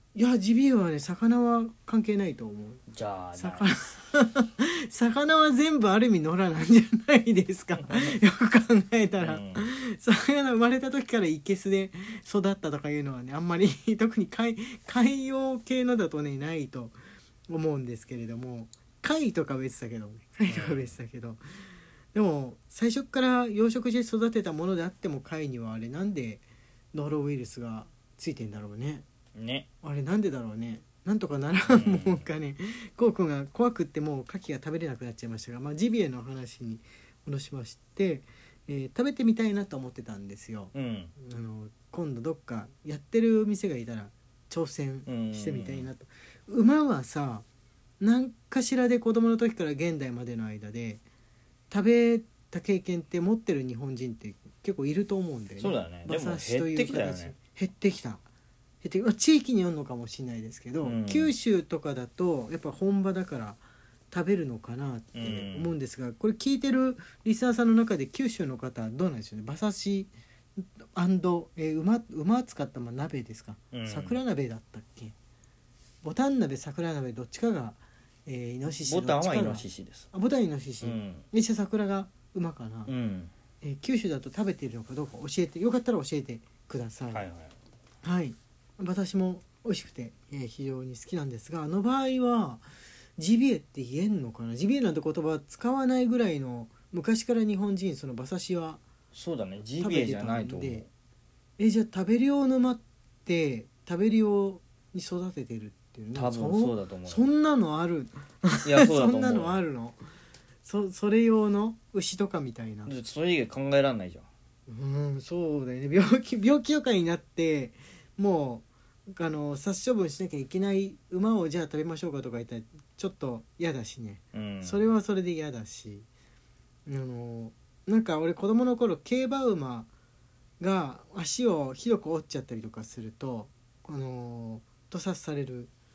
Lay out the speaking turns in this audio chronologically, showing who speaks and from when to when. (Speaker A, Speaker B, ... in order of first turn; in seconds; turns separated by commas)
Speaker A: 0.1-2.8, Speaker B: 2.9-3.7, Speaker A: 3.3-17.0, Speaker B: 7.8-8.2, Speaker B: 9.2-9.6, Speaker A: 17.5-21.4, Speaker B: 20.5-20.9, Speaker A: 22.1-29.1, Speaker B: 29.4-29.7, Speaker A: 29.8-47.4, Speaker B: 31.7-32.2, Speaker B: 40.7-41.1, Speaker B: 45.1-45.9, Speaker A: 48.0-51.0, Speaker A: 51.7-58.2, Speaker B: 55.6-57.3, Speaker A: 58.8-75.1, Speaker B: 60.8-61.3, Speaker B: 65.1-65.7, Speaker B: 73.7-74.2, Speaker A: 76.0-82.9, Speaker B: 78.9-80.1, Speaker B: 80.8-81.2, Speaker B: 82.9-83.3, Speaker A: 83.6-87.2, Speaker B: 87.1-87.5, Speaker A: 88.0-92.7, Speaker A: 93.2-98.8, Speaker B: 99.1-100.9, Speaker A: 99.8-100.9, Speaker A: 101.6-110.0, Speaker B: 106.1-107.2, Speaker B: 108.6-109.6, Speaker A: 110.6-112.9, Speaker B: 112.9-114.3, Speaker A: 114.7-126.1, Speaker B: 124.3-124.8, Speaker A: 126.9-129.9, Speaker A: 130.6-135.7